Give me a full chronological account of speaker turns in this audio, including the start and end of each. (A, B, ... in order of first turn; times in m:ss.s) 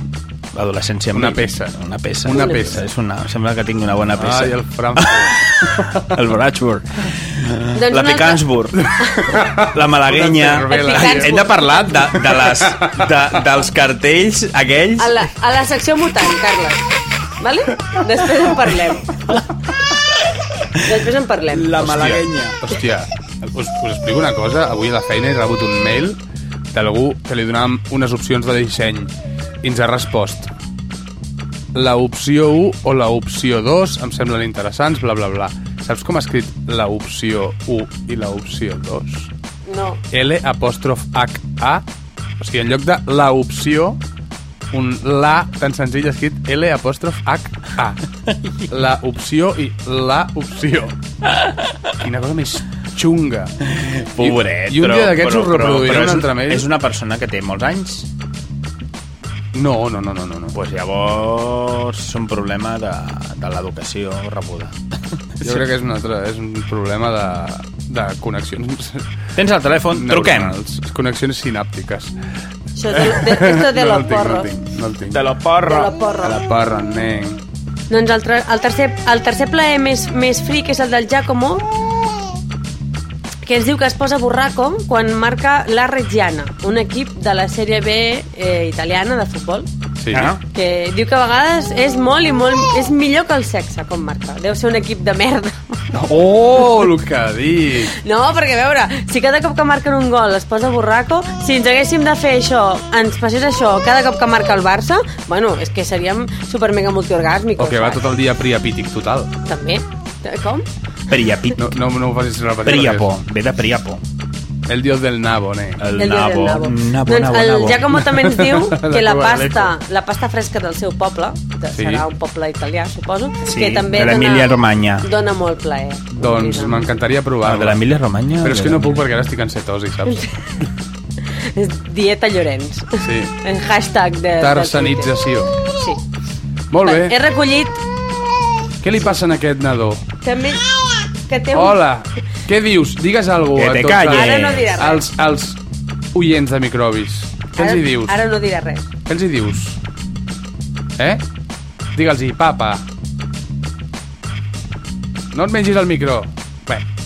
0:00.5-0:08.9 A
0:01.1-0:02.8 B
0:02.3-0:02.8 C
0:04.2-0:06.1 B
0:07.8-0:08.5 C
0:09.0-0:09.3 C
0:09.2-0:11.4 B
0:09.6-0:15.1 A
0:10.7-0:11.9 C
0:12.2-0:13.1 B
0:15.0-0:16.8 C
0:17.4-0:19.3 C
0:20.8-0:21.7 C
0:21.5-0:22.6 A
0:21.8-0:26.2 B
0:26.7-0:29.1 B
0:29.6-0:30.5 B
0:31.7-0:39.3 B
0:39.7-0:40.0 C
0:40.1-0:41.8 B
0:42.4-0:44.0 B
0:44.7-0:48.0 B
0:48.7-0:50.9 B
0:51.3-0:51.9 A
0:52.0-0:53.5 B
0:53.6-0:58.1 A
0:54.2-0:56.7 B
0:59.5-1:00.5 B
1:00.5-1:04.8 A
1:05.4-1:05.6 A
1:05.4-1:09.0 B
1:09.4-1:10.6 A
1:09.9-1:12.1 B
1:12.8-1:14.5 C
1:12.9-1:15.2 B
1:15.1-1:16.0 A
1:15.6-1:16.4 C
1:16.2-1:17.4 B
1:17.9-1:21.6 C
1:23.4-1:29.7 C
1:30.0-1:30.3 B
1:30.1-1:30.4 A
1:30.5-1:35.6 C
1:35.9-1:38.0 B
1:38.0-1:48.0 C
1:47.6-1:49.3 B
1:49.5-1:50.7 C
1:51.1-1:51.7 A
1:51.6-1:53.1 B
1:52.6-1:54.0 A
1:54.7-1:55.8 B
1:55.8-1:58.0 A
1:56.0-2:06.9 C
1:58.0-1:59.7 B
2:01.8-2:02.0 B
2:03.4-2:05.1 A
2:06.2-2:07.8 B
2:07.4-2:09.0 A
2:08.4-2:10.7 B
2:11.5-2:15.1 C
2:13.0-2:13.4 B
2:14.4-2:15.5 B
2:16.7-2:17.2 B
2:16.8-2:17.8 C
2:18.8-2:20.0 B
2:20.2-2:20.6 C
2:21.3-2:21.8 C
2:21.5-2:25.6 B
2:23.6-2:24.7 A
2:24.1-2:25.1 C
2:26.1-2:28.2 B
2:27.6-2:28.9 C
2:29.1-2:29.8 B
2:32.0-2:32.8 B
2:35.3-2:36.8 B